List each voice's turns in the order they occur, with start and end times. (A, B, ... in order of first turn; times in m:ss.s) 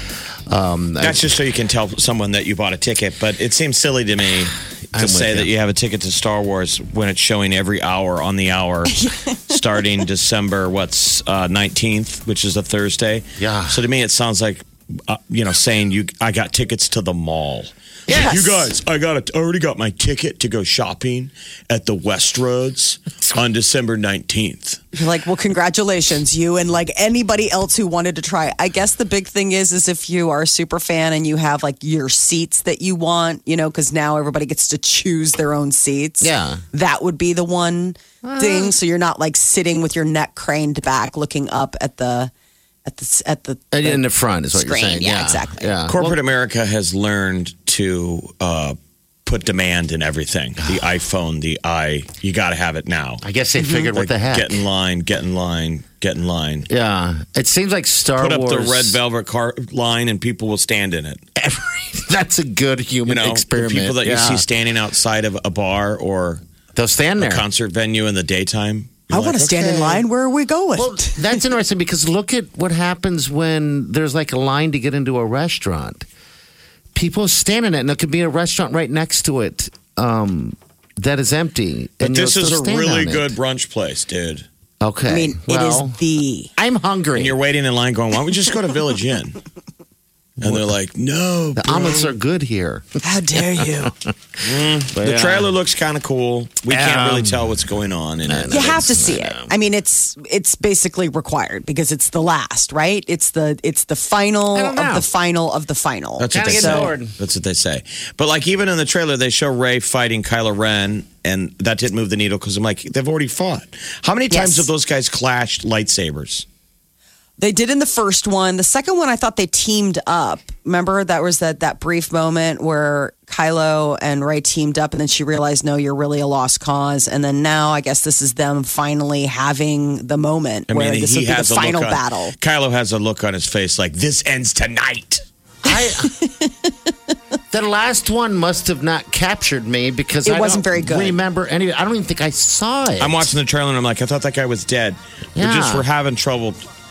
0:00.5-0:01.3 A
0:01.0-0:24.8 B
0:04.9-0:05.5 A
0:08.9-0:09.6 C
0:13.4-0:13.8 A
0:18.1-0:18.4 A
0:18.1-0:18.6 C
0:24.9-0:42.3 C
0:36.2-0:36.6 A
0:38.2-0:38.7 A
0:42.8-0:45.7 C
0:43.7-0:46.2 A
0:45.9-0:53.2 B
0:53.2-0:54.6 A
0:53.6-0:53.9 C
0:53.9-0:56.7 B
0:56.7-0:59.0 A
0:58.2-1:01.2 B
1:01.4-1:04.4 A
1:03.1-1:06.4 B
1:06.7-1:07.4 A
1:07.2-1:09.8 B
1:09.1-1:11.4 C
1:09.5-1:10.0 A
1:10.8-1:16.1 A
1:16.9-1:23.4 A
1:22.0-1:24.4 B
1:24.8-1:26.0 A
1:25.1-1:26.5 C
1:26.6-1:27.4 A
1:27.1-1:29.4 B
1:30.4-1:30.7 A
1:30.4-1:32.1 B
1:31.6-1:35.5 A
1:33.0-1:33.9 C
1:34.4-1:38.8 B
1:36.7-1:37.5 A
1:38.2-1:39.5 A
1:38.5-1:46.9 C
1:44.5-1:45.1 A
1:46.2-1:56.4 B
1:46.3-1:47.1 A
1:54.3-1:54.7 C
1:57.4-2:12.4 C
2:10.7-2:15.2 B
2:15.6-2:16.1 A
2:15.7-2:16.7 C
2:17.5-2:23.3 A
2:20.2-2:21.2 C
2:23.0-2:26.6 B
2:25.3-2:25.8 A